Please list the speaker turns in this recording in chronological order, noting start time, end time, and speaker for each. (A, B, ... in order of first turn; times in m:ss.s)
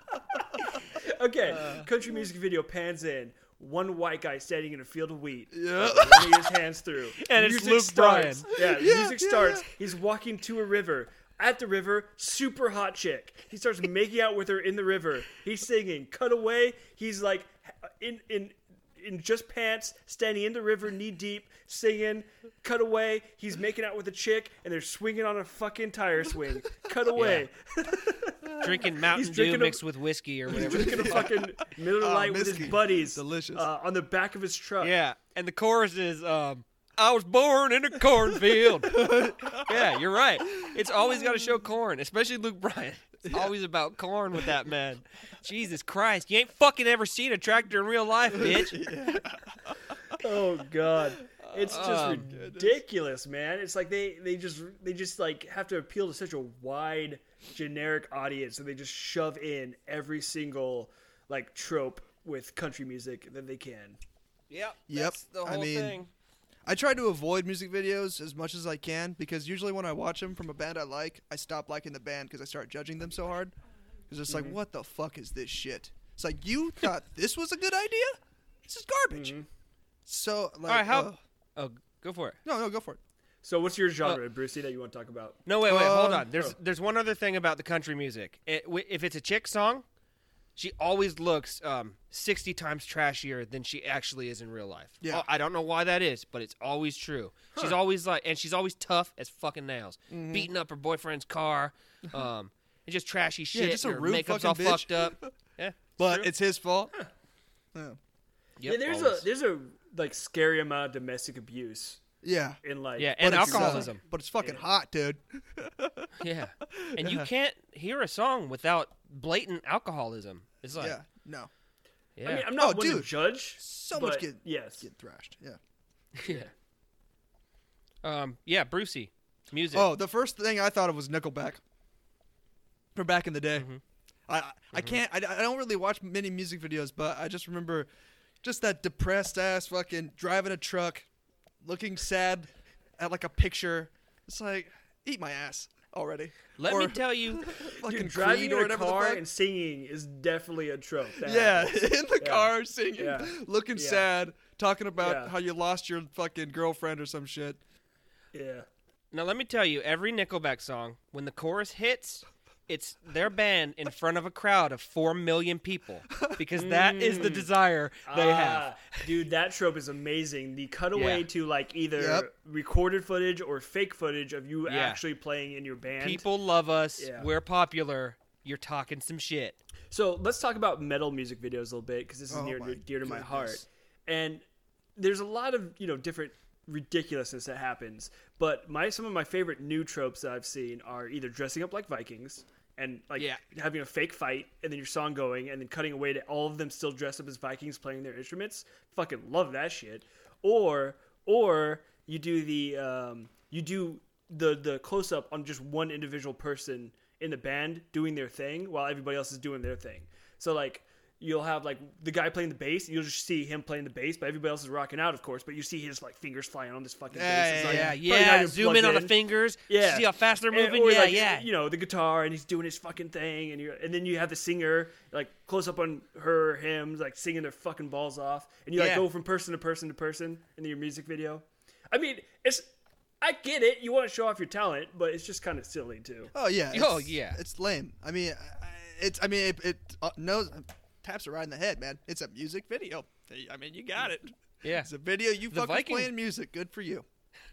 0:00.4-0:29.8 A
0:01.5-0:01.8 B
0:05.5-0:06.5 B
0:07.2-0:08.5 C
0:08.6-0:09.7 B
0:27.1-0:27.5 C
0:28.6-0:31.3 C
0:30.5-0:34.9 A
0:30.5-0:33.6 B
0:34.8-0:48.9 C
0:38.8-0:40.0 B
0:43.3-0:43.5 B
0:48.3-0:50.2 B
0:50.1-1:04.0 A
0:51.4-0:52.8 B
0:51.6-0:52.3 C
1:04.5-1:06.1 C
1:04.9-1:06.0 B
1:06.6-1:13.5 B
1:14.1-1:19.3 B
1:14.3-1:14.6 A
1:19.1-1:19.4 A
1:20.0-1:21.2 B
1:20.7-1:22.4 C
1:22.4-1:23.0 B
1:23.4-1:25.4 A
1:25.4-1:29.8 C
1:25.6-1:26.3 B
1:30.6-1:46.3 C
1:40.1-1:40.5 B
1:43.5-1:45.3 B
1:46.0-1:46.9 B
1:48.6-1:49.2 C
1:48.6-1:52.0 A
1:52.2-1:52.6 B
1:52.6-1:54.6 A
1:53.0-1:54.0 C
1:53.2-1:56.1 B
1:56.2-2:01.0 C
1:56.7-1:57.3 B
2:00.8-2:01.5 B
2:02.2-2:02.5 C
2:02.2-2:04.9 A
2:02.5-2:05.6 B
2:06.2-2:06.5 C
2:08.0-2:09.9 C
2:09.7-2:11.6 B
2:12.9-2:13.7 B
2:13.6-2:13.8 C
2:14.3-2:17.9 B
2:18.4-2:21.1 B
2:21.6-2:29.2 B
2:26.6-2:27.5 C
2:27.8-2:34.1 A
2:31.2-2:37.6 B
2:35.0-2:35.3 A
2:38.3-2:38.6 A
2:39.1-2:49.1 C
2:46.5-2:47.5 A
2:48.0-2:56.2 A
2:50.9-2:51.2 C
2:52.0-2:52.3 B
2:54.7-2:55.0 C
2:56.0-2:59.6 C
2:57.0-2:57.3 A
2:59.9-3:04.4 A
3:02.3-3:03.6 B
3:05.0-3:39.1 A
3:37.1-3:38.0 B
3:37.6-3:41.5 C
3:39.7-3:52.7 A
3:48.8-3:49.0 C
3:53.2-3:56.3 A
3:56.3-4:07.0 B
3:56.7-3:57.4 C
4:04.6-4:04.9 C
4:05.5-4:06.1 C